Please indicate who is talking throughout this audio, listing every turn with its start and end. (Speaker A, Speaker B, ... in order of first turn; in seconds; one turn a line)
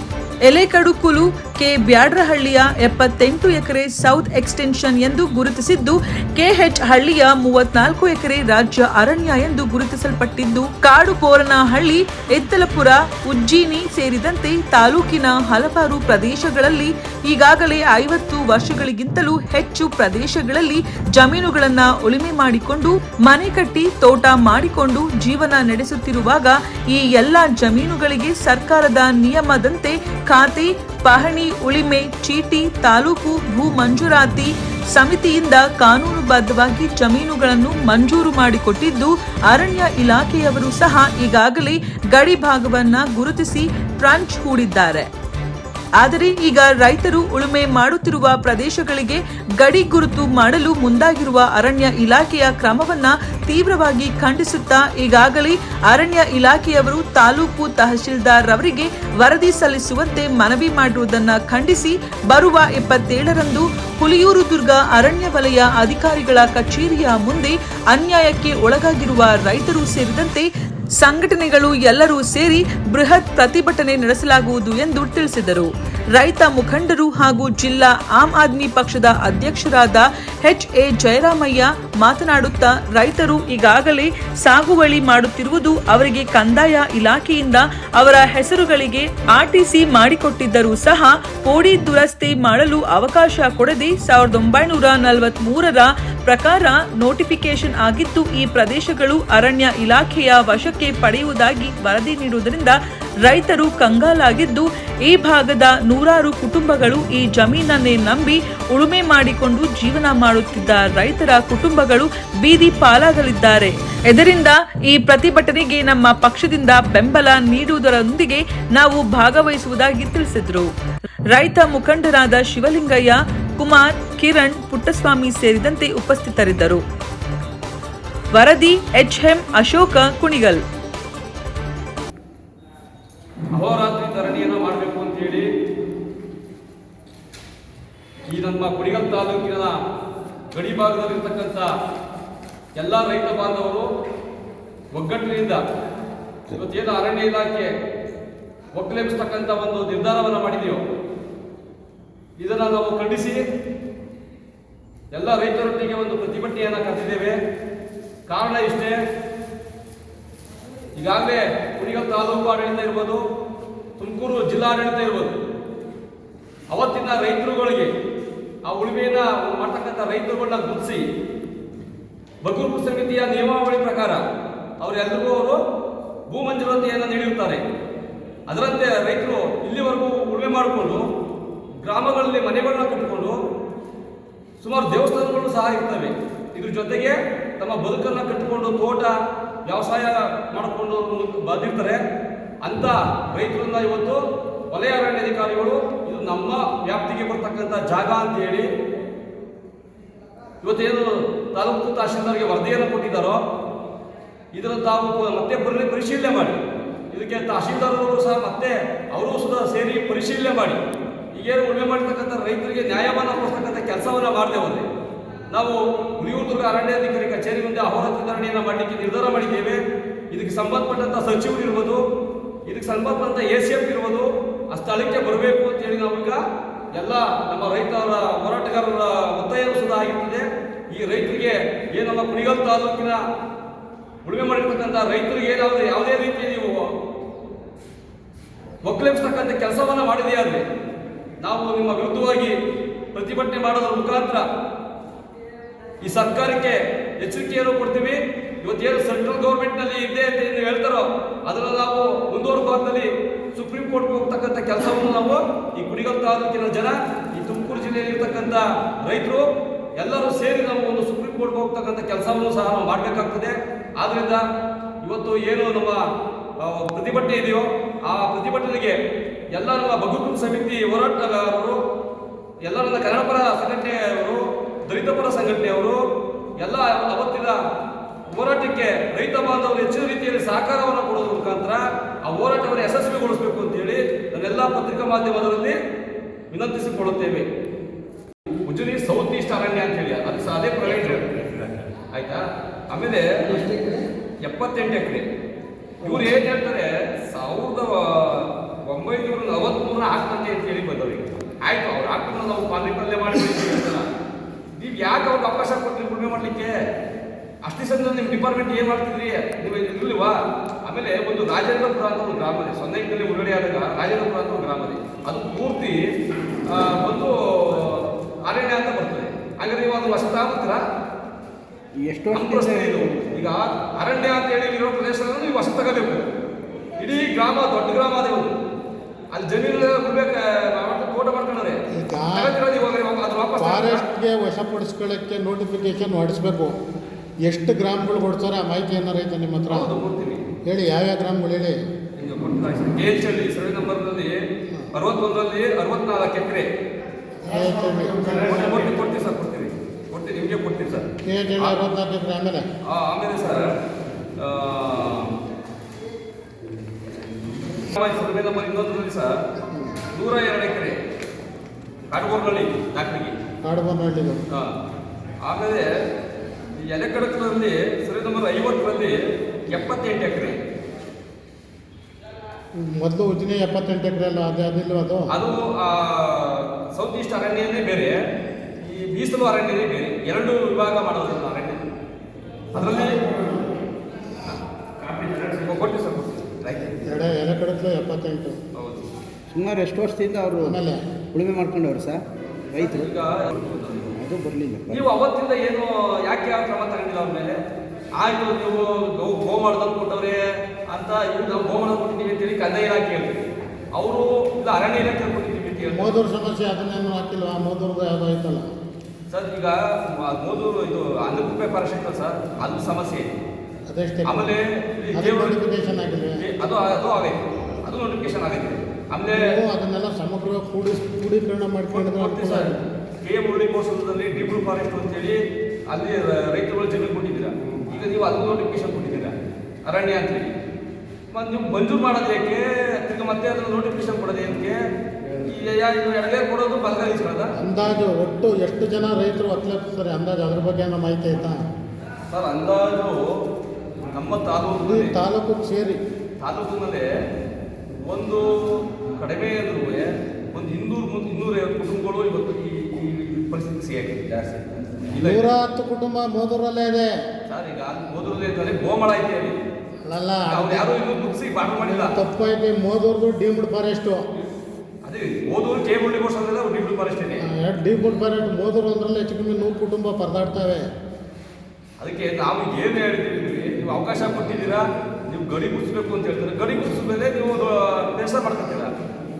Speaker A: 0.4-45.1
Speaker A: 46.0-70.5
Speaker A: 71.0-120.7
Speaker A: 121.3-126.8
Speaker A: 128.3-130.6
Speaker B: 133.5-135.5
Speaker B: 138.2-139.7
Speaker B: 140.5-141.7
Speaker B: 142.7-143.9
Speaker B: 144.9-145.6
Speaker B: 146.5-147.7
Speaker B: 148.7-150.8
Speaker B: 152.4-153.4
Speaker B: 155.1-157.4
Speaker B: 158.3-159.0
Speaker B: 160.9-163.2
Speaker B: 164.0-165.4
Speaker B: 166.7-167.9
Speaker B: 168.7-171.0
Speaker B: 172.4-174.2
Speaker B: 174.8-175.6
Speaker B: 176.3-177.6
Speaker B: 178.5-181.0
Speaker B: 181.8-183.4
Speaker B: 184.6-189.1
Speaker B: 189.6-192.0
Speaker B: 192.6-198.7
Speaker B: 200.6-203.4
Speaker B: 204.5-210.8
Speaker B: 211.3-214.9
Speaker B: 215.5-222.0
Speaker B: 222.7-226.4
Speaker B: 226.9-233.2
Speaker B: 234.2-236.9
Speaker B: 238.8-240.6
Speaker B: 241.4-242.6
Speaker B: 243.1-244.4
Speaker B: 246.0-259.4
Speaker B: 260.0-264.4
Speaker B: 265.0-266.0
Speaker B: 266.6-269.0
Speaker B: 269.5-271.8
Speaker B: 272.6-276.0
Speaker B: 276.6-277.6
Speaker B: 278.3-285.8
Speaker B: 286.5-287.5
Speaker B: 288.5-293.6
Speaker C: 291.0-291.7
Speaker C: 293.4-294.0
Speaker B: 294.4-295.3
Speaker B: 296.0-304.1
Speaker C: 296.0-296.4
Speaker B: 304.8-306.8
Speaker B: 307.6-316.0
Speaker B: 316.6-320.8
Speaker C: 322.0-323.3
Speaker B: 322.3-326.2
Speaker B: 327.0-328.6
Speaker B: 329.3-334.0
Speaker D: 331.9-332.5
Speaker D: 333.6-336.8
Speaker D: 337.4-339.9
Speaker B: 339.7-340.4
Speaker D: 340.6-341.8
Speaker B: 342.2-344.4
Speaker B: 344.9-346.7
Speaker D: 347.4-348.8
Speaker B: 348.3-351.1
Speaker D: 351.2-352.6
Speaker B: 352.9-353.8
Speaker B: 354.4-355.4
Speaker B: 357.9-359.4
Speaker B: 360.1-361.0
Speaker B: 362.1-363.3
Speaker D: 363.6-364.4
Speaker B: 365.4-365.9
Speaker B: 366.8-370.6
Speaker D: 372.8-375.3
Speaker B: 375.3-378.2
Speaker B: 378.8-381.8
Speaker B: 382.7-383.2
Speaker D: 382.8-383.4
Speaker B: 385.3-387.0
Speaker D: 387.0-388.6
Speaker B: 388.7-389.1
Speaker C: 389.5-390.8
Speaker D: 390.6-391.0
Speaker C: 391.3-393.1
Speaker B: 392.8-394.1
Speaker C: 394.1-395.0
Speaker B: 394.9-397.6
Speaker B: 398.1-403.4
Speaker B: 403.9-406.2
Speaker D: 405.9-408.7
Speaker B: 409.3-413.3
Speaker D: 413.9-414.5
Speaker B: 414.2-415.6
Speaker D: 415.1-416.4
Speaker B: 416.4-419.5
Speaker D: 419.3-422.9
Speaker B: 421.9-429.3
Speaker B: 429.9-430.5
Speaker B: 431.3-434.8
Speaker B: 435.4-437.6
Speaker D: 437.6-441.6
Speaker B: 442.3-443.2
Speaker B: 444.1-445.2
Speaker D: 444.8-446.0
Speaker B: 446.4-447.1
Speaker B: 447.9-455.5
Speaker D: 455.2-457.1
Speaker B: 457.5-459.6
Speaker D: 460.0-460.9
Speaker B: 460.5-462.2
Speaker D: 461.8-464.2
Speaker B: 465.0-467.4
Speaker D: 467.4-470.9
Speaker B: 472.0-478.9